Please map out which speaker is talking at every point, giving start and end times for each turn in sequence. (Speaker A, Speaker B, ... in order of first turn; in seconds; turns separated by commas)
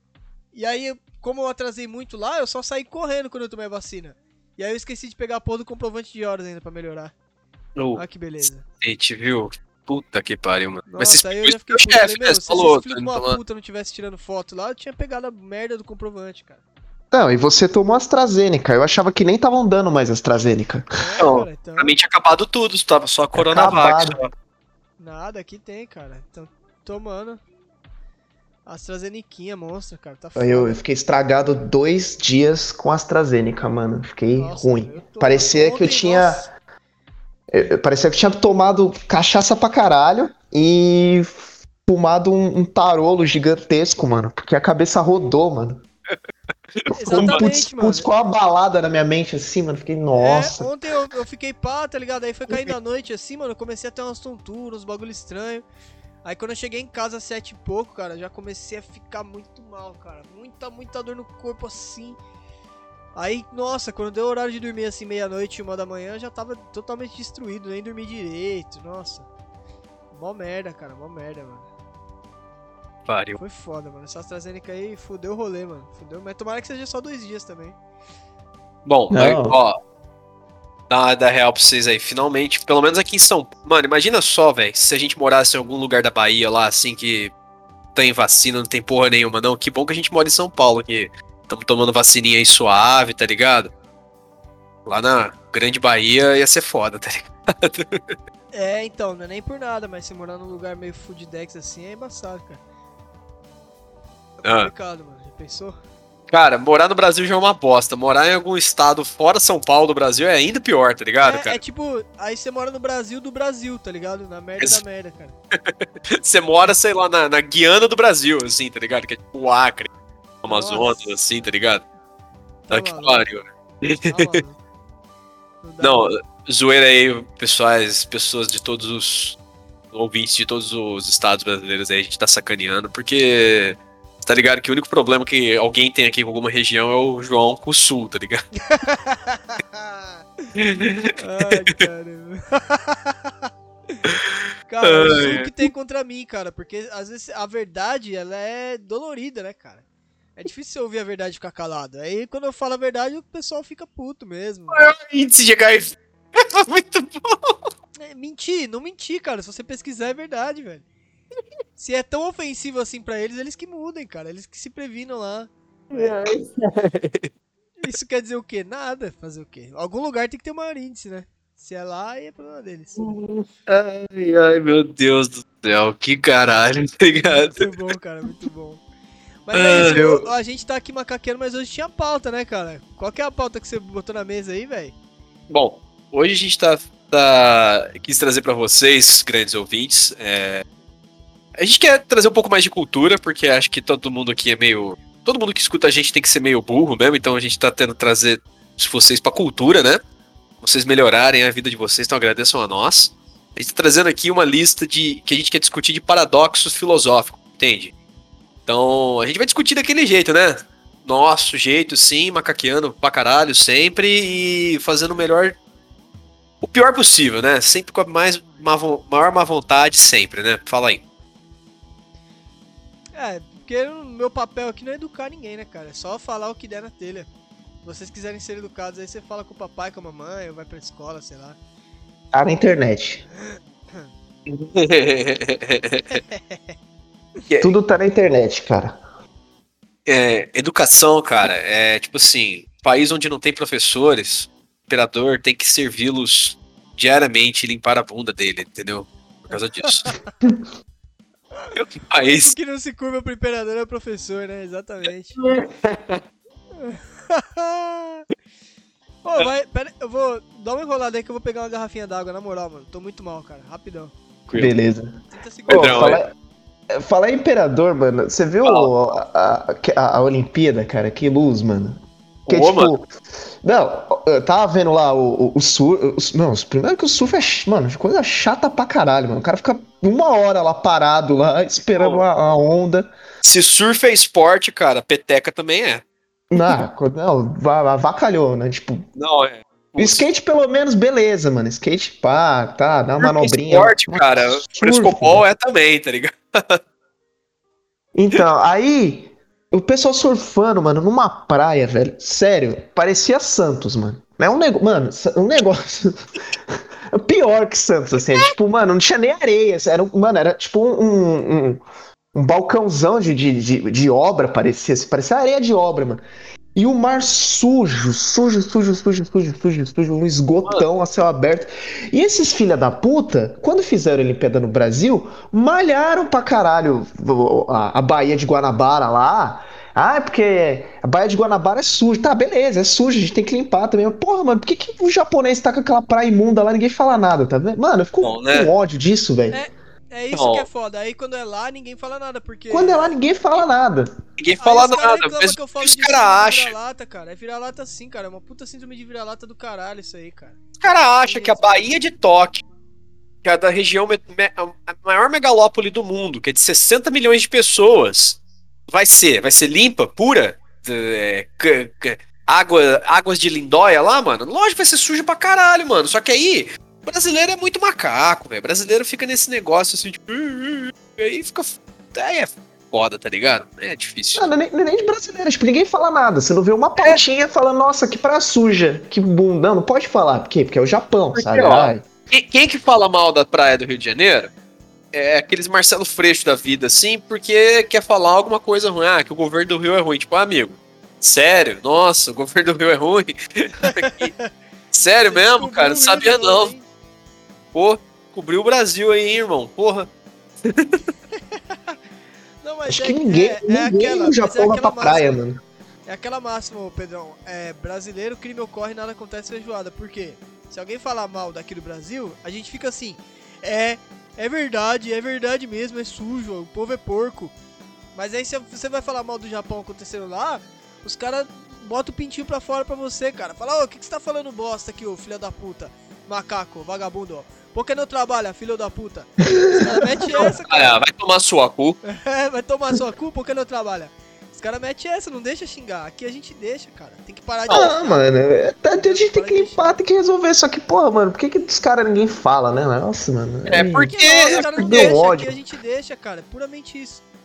Speaker A: 0.5-7.1, Speaker B: 7.8-8.0, Speaker A: 8.0-8.7, Speaker B: 8.7-13.4, Speaker A: 10.9-16.6, Speaker C: 17.1-20.9, Speaker A: 20.9-21.9, Speaker B: 21.2-24.3, Speaker C: 23.4-24.2, Speaker A: 25.0-27.4, Speaker A: 28.7-30.8, Speaker C: 30.4-36.5, Speaker A: 34.4-36.5, Speaker C: 37.5-45.8, Speaker B: 46.8-47.4, Speaker A: 46.9-48.1, Speaker C: 47.0-50.7, Speaker A: 50.2-55.6, Speaker A: 56.2-62.2, Speaker A: 63.1-69.3, Speaker A: 70.1-71.7, Speaker B: 73.1-73.4, Speaker A: 73.4-77.8, Speaker B: 78.8-79.8, Speaker C: 79.1-79.6, Speaker B: 80.9-87.3, Speaker B: 88.0-93.7, Speaker B: 94.9-98.2, Speaker A: 98.5-102.6, Speaker A: 104.4-105.8, Speaker B: 104.5-104.7, Speaker B: 106.3-111.6, Speaker A: 111.2-115.4, Speaker B: 115.7-119.9, Speaker B: 120.4-121.8, Speaker A: 120.5-121.1, Speaker A: 122.7-123.3, Speaker B: 122.7-124.4, Speaker A: 124.1-124.6, Speaker A: 125.6-126.1, Speaker B: 125.8-129.4, Speaker B: 129.9-138.4, Speaker A: 138.7-140.5, Speaker B: 140.6-141.8, Speaker A: 141.2-144.0, Speaker B: 144.1-145.7, Speaker A: 144.7-149.8, Speaker A: 150.4-154.8, Speaker B: 154.7-157.6, Speaker A: 158.0-160.8, Speaker A: 161.8-166.2, Speaker B: 165.9-167.3, Speaker A: 167.8-173.2, Speaker B: 173.0-177.7, Speaker A: 177.2-178.8, Speaker A: 179.4-184.9, Speaker B: 179.5-180.3, Speaker B: 185.5-190.6, Speaker B: 191.6-200.0, Speaker B: 200.6-207.9, Speaker B: 208.7-215.6, Speaker B: 216.6-221.0, Speaker A: 223.1-227.3, Speaker A: 227.8-231.6, Speaker C: 232.3-233.2, Speaker A: 233.5-234.1, Speaker B: 234.5-236.2, Speaker A: 236.1-236.8, Speaker B: 237.5-237.8, Speaker C: 237.6-239.0, Speaker B: 240.1-250.2, Speaker A: 251.6-255.4, Speaker B: 251.8-252.5, Speaker B: 255.4-256.2, Speaker A: 256.8-258.3, Speaker A: 259.2-264.1, Speaker B: 264.5-264.7, Speaker C: 264.6-266.3, Speaker A: 265.4-266.3, Speaker B: 265.7-266.2, Speaker C: 266.9-273.1, Speaker B: 268.6-268.9, Speaker B: 272.5-273.0, Speaker C: 273.6-283.1, Speaker B: 283.4-286.0, Speaker C: 286.5-289.1, Speaker B: 289.2-290.2, Speaker C: 290.0-295.5, Speaker B: 293.2-296.8, Speaker C: 298.1-306.2, Speaker C: 306.7-311.8, Speaker C: 312.3-316.2, Speaker C: 316.8-339.6, Speaker B: 338.2-338.7, Speaker A: 339.5-343.2, Speaker B: 340.3-340.7, Speaker C: 342.7-344.1, Speaker B: 344.4-346.7, Speaker A: 344.6-350.6, Speaker B: 350.8-352.6, Speaker A: 351.2-351.9, Speaker B: 353.4-374.4, Speaker C: 374.4-382.1, Speaker B: 381.4-384.5, Speaker B: 385.1-394.3, Speaker A: 393.8-394.5, Speaker B: 394.9-396.7, Speaker A: 395.3-396.9, Speaker B: 397.7-400.1, Speaker B: 400.6-401.0, Speaker A: 401.4-402.0, Speaker A: 402.6-405.4, Speaker C: 402.9-405.6, Speaker A: 406.1-417.5, Speaker A: 418.1-431.0, Speaker B: 430.5-432.0, Speaker A: 432.1-438.3, Speaker C: 437.7-445.6, Speaker A: 438.9-440.0, Speaker B: 443.7-445.1, Speaker A: 444.0-447.2